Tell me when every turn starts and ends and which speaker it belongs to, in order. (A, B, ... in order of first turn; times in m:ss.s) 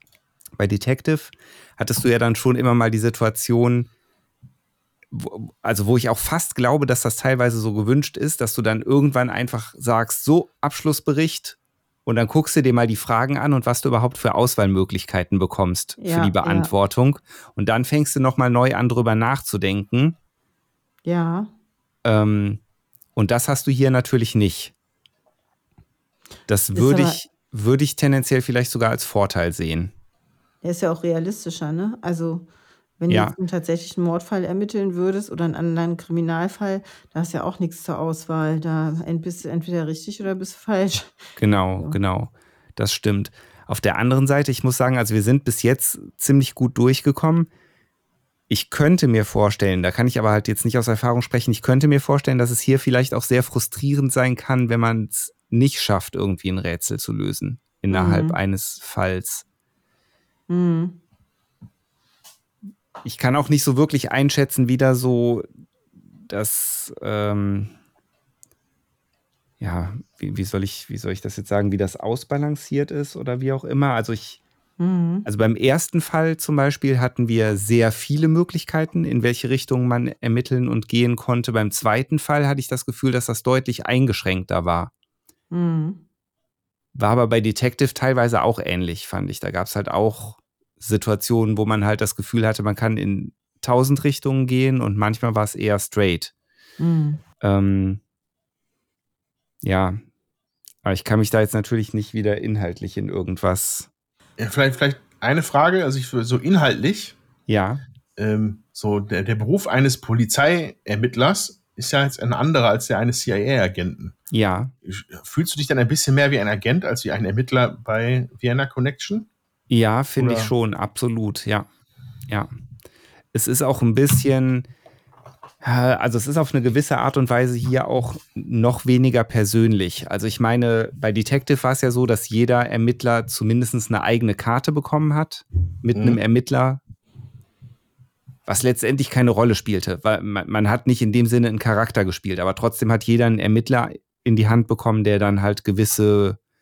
0:00.6-0:03.9 A
0:05.1-0:20.2 A
0:16.0-0:16.7 B
0:21.0-0:21.5 B
0:22.0-0:22.6 A
0:23.2-0:24.7 A
0:26.5-0:29.9 A
0:26.7-0:27.2 B
0:30.6-0:32.5 B
0:33.0-0:41.2 B
0:33.1-0:33.4 A
0:41.4-0:47.5 A
0:48.5-0:59.4 A
0:57.9-0:58.4 B
1:00.5-1:01.0 B
1:03.0-1:05.5 A
1:06.3-1:07.7 A
1:09.6-1:14.4 A
1:14.8-1:15.3 B
1:15.3-1:24.9 A
1:25.5-1:26.0 B
1:27.0-1:36.3 A
1:36.8-1:37.2 B
1:37.4-1:38.0 A
1:39.6-1:40.0 A
1:40.8-1:43.9 A
1:44.4-1:47.2 C
1:47.5-1:47.8 A
1:48.2-1:54.2 C
1:54.3-1:54.7 A
1:54.8-1:59.3 C
1:59.7-2:01.7 A
2:00.2-2:00.5 C
2:03.3-2:04.7 A
2:05.6-2:16.8 A
2:15.9-2:16.2 C
2:18.5-2:26.4 A